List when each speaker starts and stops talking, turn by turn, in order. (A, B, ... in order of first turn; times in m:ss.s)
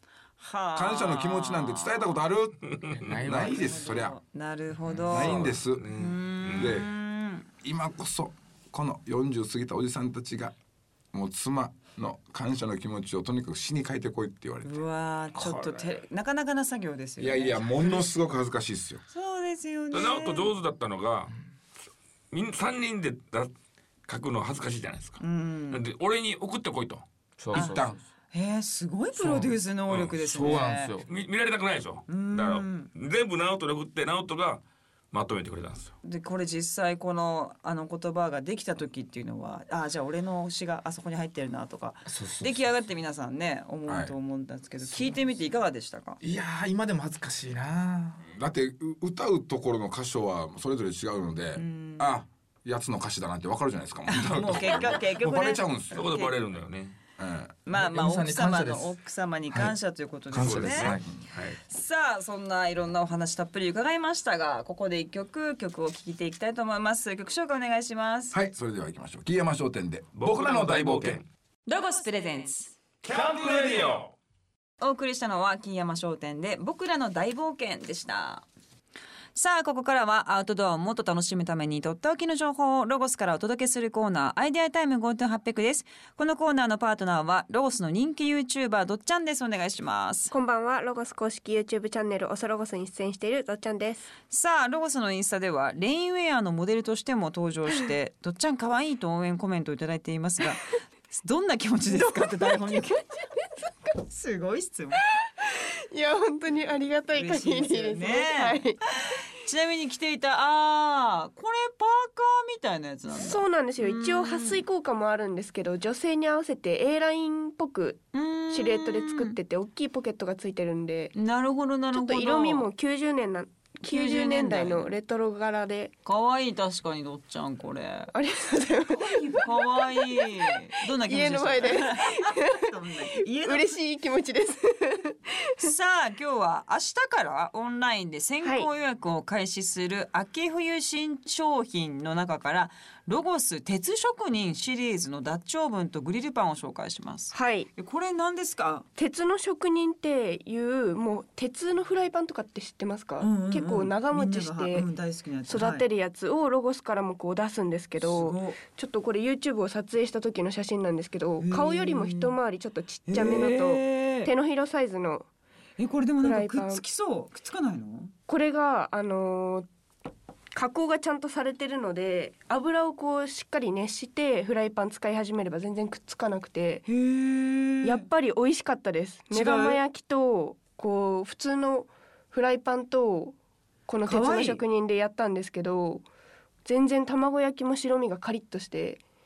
0:00.4-0:02.2 A
0:00.8-0:04.2 B
0:02.7-0:03.2 C
0:03.0-0:03.8 D
0:03.3-0:07.5 A
0:04.9-0:05.3 D
0:05.1-0:05.9 B
0:05.1-0:06.8 C
0:06.6-0:06.9 B
0:07.6-0:10.6 B
0:11.1-0:14.8 B
0:14.6-0:18.1 A
0:17.2-0:19.0 B
0:19.1-0:20.5 A
0:19.9-0:21.4 C
0:22.3-0:23.5 C
0:24.1-0:25.2 C
0:25.2-0:25.8 A
0:25.7-0:27.0 C
0:27.4-0:28.0 D
0:27.5-0:28.0 B
0:28.3-0:30.9 A
0:29.1-0:31.1 D
0:29.9-0:30.5 C
0:31.1-0:35.9 C
0:32.1-0:32.9 A
0:36.0-0:46.2 A
0:42.1-0:42.6 D
0:43.9-0:44.1 B
0:46.2-0:48.2 D
0:48.3-0:56.0 B
0:51.6-0:52.2 A
0:54.1-0:56.4 A
0:55.9-0:57.0 C
0:57.2-0:57.5 B
0:57.7-1:00.9 A
0:57.7-0:59.0 D
1:00.3-1:01.1 D
1:00.4-1:01.6 C
1:01.7-1:08.4 A
1:08.3-1:11.2 B
1:10.2-1:11.3 C
1:11.7-1:12.8 A
1:13.0-1:14.1 C
1:14.8-1:18.5 A
1:19.4-1:30.3 A
1:30.3-1:34.1 E
1:34.3-1:43.1 A
1:42.0-1:43.5 E
1:44.0-1:45.0 A
1:45.1-1:48.8 E
1:47.1-1:54.6 A
1:53.1-2:01.1 E
1:58.1-1:59.4 A
2:01.1-2:02.7 A
2:01.9-2:05.9 E
2:03.8-2:04.9 A
2:06.0-2:08.1 A
2:08.1-2:15.7 E
2:08.9-2:13.8 A
2:15.6-2:28.9 A
2:18.4-2:18.7 E
2:27.3-2:27.7 E
2:29.0-2:34.9 E
2:33.2-2:35.9 A
2:35.5-2:45.3 E
2:38.0-2:38.6 A
2:41.4-2:42.4 A
2:43.1-2:44.3 A
2:45.8-2:48.1 A
2:46.2-2:46.8 E
2:48.3-2:49.7 E
2:50.5-2:56.9 E
2:56.9-2:58.0 A
2:57.8-3:03.4 E
2:59.3-2:59.8 A
3:03.9-3:06.1 E
3:04.0-3:04.6 A
3:06.6-3:09.0 E